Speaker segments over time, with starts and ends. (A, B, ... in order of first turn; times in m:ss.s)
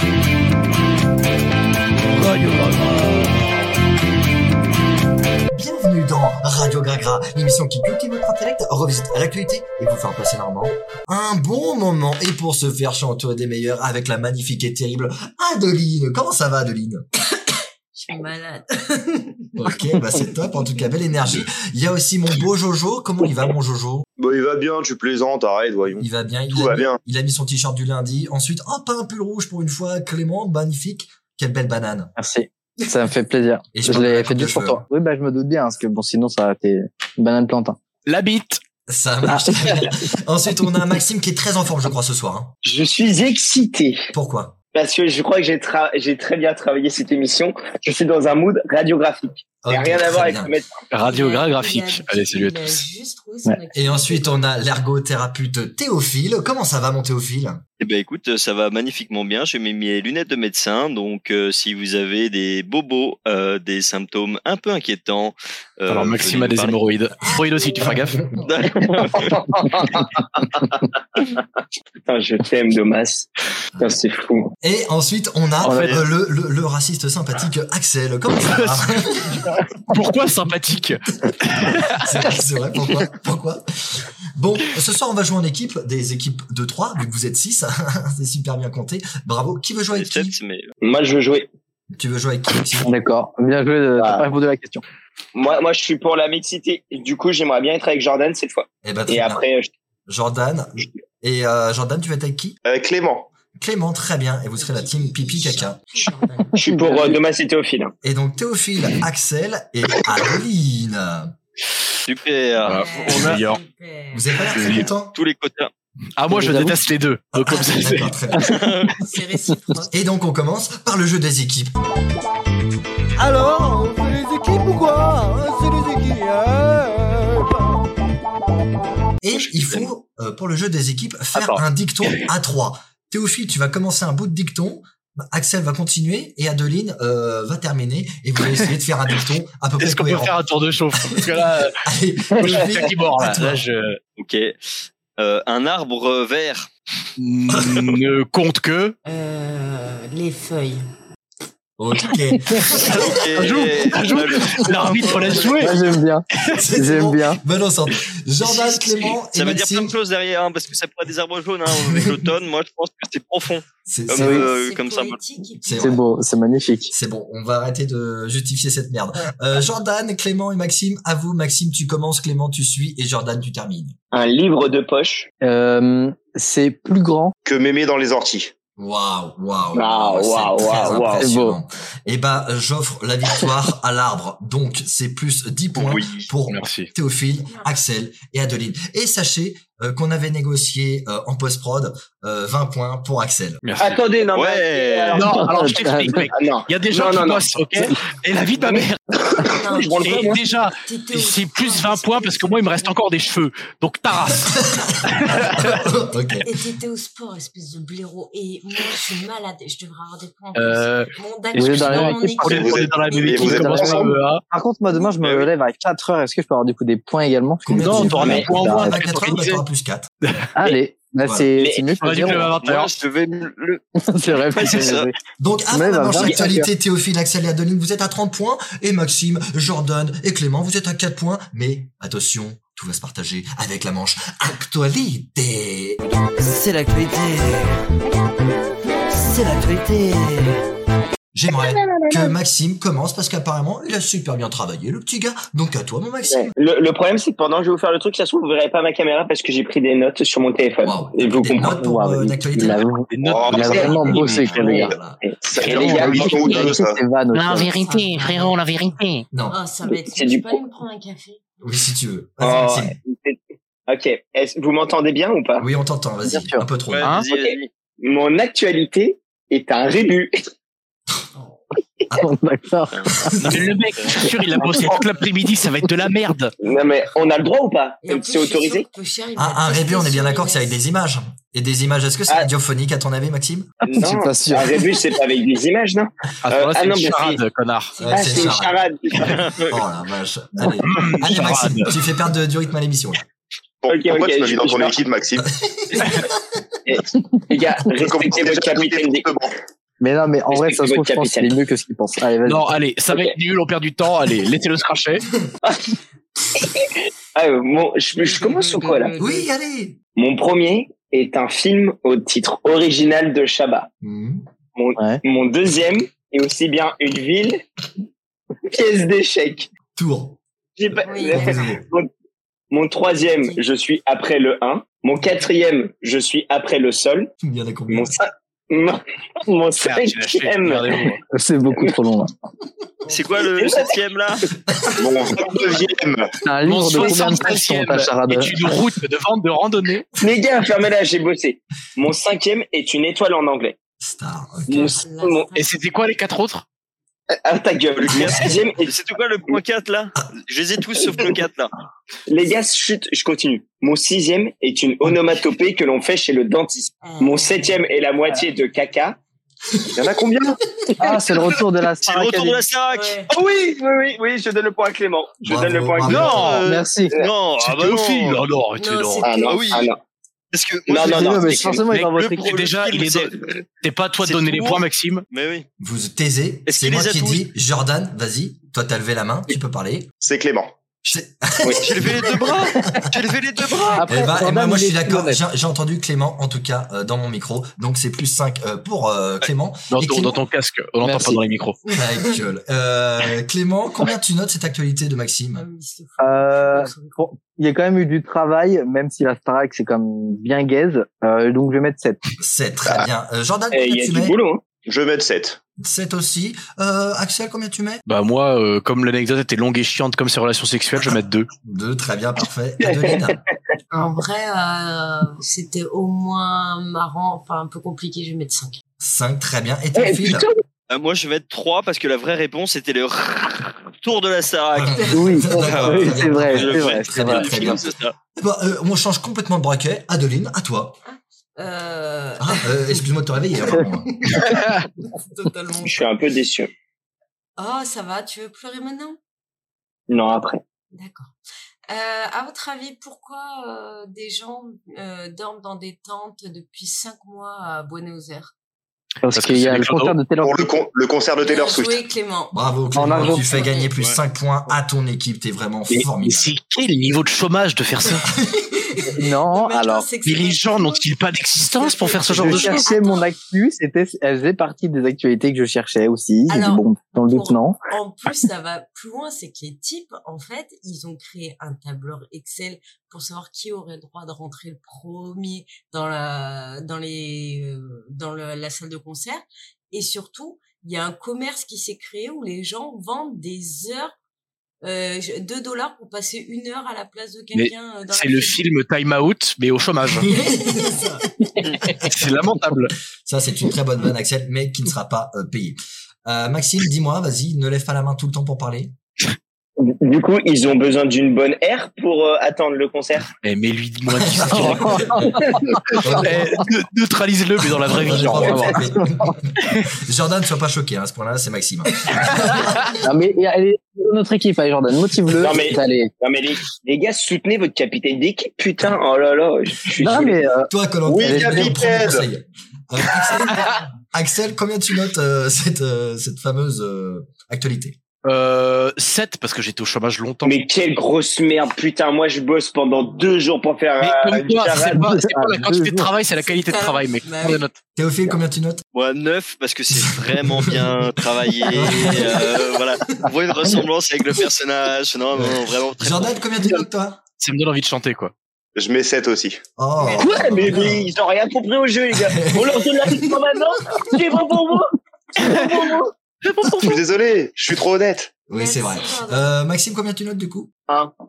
0:02.2-0:02.6 A
0:05.5-0:17.0 B
0:17.9-0:21.1 C
0:19.6-0:24.0 B
0:24.2-0:27.0 D
0:26.0-0:32.1 B
0:32.2-0:37.8 E
0:33.7-0:34.8 B
0:38.0-0:38.6 F
0:38.9-0:42.5 B
0:39.3-0:39.8 E
0:42.6-0:44.1 G
0:44.1-0:44.6 B
0:44.7-0:50.8 G
0:49.6-0:50.5 B
0:50.9-0:52.8 F
0:51.0-0:54.4 C
0:53.7-0:57.6 B
0:57.8-1:06.8 H
1:05.9-1:08.2 F
1:07.3-1:07.9 C
1:07.8-1:08.5 B
1:08.4-1:09.4 H
1:08.8-1:10.0 G
1:12.1-1:14.5 G
1:14.6-1:19.6 B
1:15.6-1:16.0 E
1:15.7-1:16.0 F
1:18.4-1:18.9 F
1:19.9-1:22.1 F
1:21.9-1:30.3 B
1:29.9-1:30.7 H
1:30.8-1:31.5 G
1:31.9-1:33.0 B
1:32.9-1:34.8 E
1:34.0-1:34.3 G
1:35.3-1:39.7 G
1:38.8-1:39.4 B
1:40.1-1:42.6 B
1:42.6-1:43.3 D
1:43.6-1:46.1 B
1:44.5-1:46.6 C
1:46.5-1:47.2 E
1:46.6-1:47.9 G
1:48.0-1:51.3 B
1:52.0-1:53.4 H
1:52.6-1:53.6 F
1:52.7-1:54.4 C
1:54.1-1:55.1 B
1:54.6-1:54.9 F
1:55.1-1:55.7 H
1:56.2-1:58.1 F
1:56.3-1:56.8 E
1:57.3-1:58.5 B
1:58.4-1:58.9 H
1:59.0-1:59.9 C
1:59.9-2:01.7 B
2:03.2-2:07.9 B
2:09.2-2:20.4 B
2:09.3-2:09.9 F
2:11.3-2:11.6 F
2:19.8-2:21.8 F
2:21.0-2:23.6 B
2:22.4-2:24.0 F
2:24.2-2:26.7 H
2:27.2-2:29.0 F
2:27.5-2:27.9 B
2:29.0-2:30.8 C
2:31.8-2:33.8 B
2:32.7-2:35.8 F
2:32.8-2:35.7 H
2:34.6-2:35.5 B
2:35.6-2:37.4 E
2:36.5-2:39.9 B
2:39.3-2:45.2 H
2:41.7-2:42.2 B
2:43.9-2:44.5 B
2:44.2-2:44.4 E
2:44.2-2:46.0 C
2:45.6-2:46.0 B
2:45.8-2:46.9 E
2:46.9-2:53.9 B
2:54.1-2:55.3 G
2:55.4-2:57.3 E
2:57.4-2:58.5 D
2:58.8-3:13.6 B
2:59.7-3:01.3 G
3:01.2-3:01.6 E
3:05.7-3:06.3 H
3:06.5-3:06.9 F
3:13.6-3:14.0 F
3:13.8-3:17.5 G
3:14.3-3:15.3 H
3:15.1-3:19.0 F
3:15.4-3:16.2 E
3:19.4-3:23.2 C
3:19.7-3:20.4 G
3:20.0-3:25.8 F
3:24.4-3:26.4 B
3:26.4-3:33.9 C
3:30.5-3:34.4 F
3:31.5-3:32.4 E
3:32.4-3:34.2 D
3:33.6-3:39.0 E
3:37.6-3:40.1 B
3:37.7-3:39.6 F
3:38.2-3:38.5 G
3:40.2-3:40.5 F
3:40.6-3:42.5 E
3:41.6-3:42.5 G
3:42.0-3:42.9 F
3:42.6-3:45.1 H
3:44.1-3:45.1 E
3:45.4-3:57.8 B
3:45.7-3:46.7 E
3:59.1-4:00.6 B
4:01.3-4:06.5 B
4:01.5-4:02.3 G
4:06.3-4:11.8 G
4:10.8-4:12.9 B
4:11.6-4:14.9 E
4:13.1-4:14.7 F
4:13.2-4:14.0 D
4:13.5-4:15.2 B
4:14.6-4:16.7 G
4:15.5-4:17.0 D
4:15.7-4:18.2 E
4:17.3-4:19.3 A
4:17.5-4:18.5 C
4:19.3-4:19.6 B
4:19.5-4:21.4 C
4:20.1-4:20.6 G
4:21.6-4:22.9 B
4:22.4-4:25.7 G
4:25.6-4:27.1 B
4:26.2-4:26.7 E
4:26.9-4:27.7 H
4:27.0-4:27.3 F
4:27.2-4:30.3 G
4:32.2-4:33.0 E
4:32.9-4:34.4 H
4:33.2-4:33.6 B
4:33.4-4:36.5 F
4:34.6-4:35.0 G
4:36.6-4:38.8 G
4:38.0-4:40.8 C
4:39.4-4:43.7 B
4:43.8-4:47.4 G
4:43.9-4:44.9 E
4:46.4-4:48.0 F
4:47.9-4:48.6 C
4:48.0-4:48.7 B
4:48.1-4:49.4 G
4:49.2-4:49.8 H
4:49.7-4:53.2 B
4:50.8-4:52.0 F
4:53.8-4:55.5 D
4:53.9-4:55.0 G
4:55.4-4:56.2 B
4:56.8-4:59.3 G
4:58.0-4:59.5 D
5:00.0-5:02.7 E
5:00.5-5:01.6 G
5:02.4-5:05.2 F
5:05.6-5:05.9 G
5:06.5-5:09.1 G
5:08.2-5:09.5 C
5:09.2-5:10.0 B
5:10.2-5:13.9 G
5:14.0-5:14.4 B
5:14.8-5:17.6 G
5:18.7-5:19.7 G
5:19.9-5:20.4 B
5:20.8-5:22.1 G
5:21.0-5:21.7 C
5:21.3-5:21.8 B
5:22.7-5:27.3 G
5:23.2-5:23.6 C
5:27.4-5:28.2 B
5:27.9-5:31.1 G
5:29.8-5:31.2 F
5:31.3-5:32.3 E
5:33.1-5:34.4 H
5:33.5-5:34.0 G
5:34.7-5:35.2 B
5:35.0-5:36.3 D
5:36.4-5:38.7 E
5:36.6-5:40.0 F
5:40.2-5:43.8 G
5:44.0-5:45.0 B
5:44.7-5:45.5 G
5:44.7-5:45.7 C
5:45.5-5:46.6 F
5:47.3-5:48.9 G
5:48.1-5:51.7 H
5:52.3-5:59.2 G
5:57.0-5:57.8 C
6:00.0-6:00.6 D
6:00.1-6:01.1 G
6:01.0-6:02.6 E
6:02.0-6:03.2 H
6:02.9-6:03.3 C
6:03.3-6:07.3 G
6:05.4-6:06.6 B
6:06.0-6:06.6 F
6:06.1-6:08.4 H
6:06.6-6:07.1 E
6:07.6-6:09.3 F
6:08.7-6:09.6 C
6:09.2-6:10.0 G
6:09.5-6:09.9 H
6:10.5-6:13.6 H
6:10.9-6:11.8 G
6:10.9-6:12.5 E
6:11.9-6:15.2 F
6:14.2-6:15.6 H
6:15.8-6:20.1 B
6:16.7-6:17.5 H
6:20.2-6:20.8 D
6:21.1-6:23.1 B
6:21.6-6:21.9 G
6:21.7-6:24.0 H
6:24.0-6:25.4 E
6:24.1-6:30.4 B
6:29.9-6:31.8 F
6:31.0-6:31.4 E
6:31.8-6:32.4 C
6:31.9-6:35.6 B
6:35.5-6:37.2 C
6:36.2-6:42.2 E
6:42.4-6:44.4 B
6:43.7-6:44.6 G
6:44.8-6:45.6 D
6:45.8-6:48.0 B
6:48.0-6:51.5 F
6:51.6-6:53.4 B
6:52.8-6:53.4 G
6:53.9-6:58.8 C
6:59.0-7:00.5 B
7:00.0-7:00.6 G
7:00.9-7:08.1 H
7:04.7-7:11.0 B
7:05.0-7:05.3 C
7:05.1-7:07.5 E
7:11.0-7:13.0 C
7:12.4-7:14.3 B
7:13.8-7:16.0 C
7:15.8-7:16.7 G
7:17.6-7:19.2 C
7:20.1-7:20.6 G
7:20.9-7:21.3 C
7:21.9-7:28.5 C
7:29.2-7:30.7 E
7:29.3-7:30.2 F
7:30.4-7:32.0 D
7:31.4-7:32.6 C
7:32.5-7:36.5 B
7:32.9-7:33.5 E
7:33.1-7:33.9 C
7:35.9-7:38.2 F
7:38.8-7:41.1 C
7:39.2-7:40.1 E
7:40.2-7:42.9 F
7:41.6-7:43.3 C
7:42.3-7:47.8 E
7:46.5-8:04.1 C
8:04.8-8:08.6 C
8:07.5-8:10.3 F
8:10.2-8:11.8 C
8:10.2-8:11.2 B
8:11.8-8:12.1 B
8:12.0-8:12.9 F
8:13.2-8:19.0 B
8:19.8-8:23.3 G
8:23.4-8:25.0 F
8:24.1-8:25.3 B
8:24.5-8:26.2 E
8:25.9-8:28.8 F
8:25.9-8:26.6 B
8:27.6-8:33.0 B
8:28.5-8:29.3 E
8:29.6-8:29.9 F
8:33.0-8:36.1 E
8:35.4-8:40.4 G
8:40.0-8:40.7 E
8:40.0-8:48.0 B
8:41.0-8:42.2 D
8:41.2-8:41.7 E
8:48.2-8:50.6 F
8:50.4-8:55.0 G
8:54.0-8:57.8 F
8:55.0-8:56.1 E
8:56.4-8:57.7 C
8:58.0-8:58.8 B
8:58.9-9:06.4 H
9:00.1-9:00.9 B
9:01.7-9:02.4 B
9:05.3-9:07.2 B
9:07.4-9:08.3 F
9:08.8-9:09.6 D
9:09.8-9:11.1 B
9:10.0-9:10.8 C
9:10.2-9:16.1 G
9:12.1-9:12.8 B
9:15.4-9:15.8 F
9:16.4-9:17.0 F
9:16.8-9:18.4 D
9:18.5-9:20.7 B
9:18.5-9:19.5 C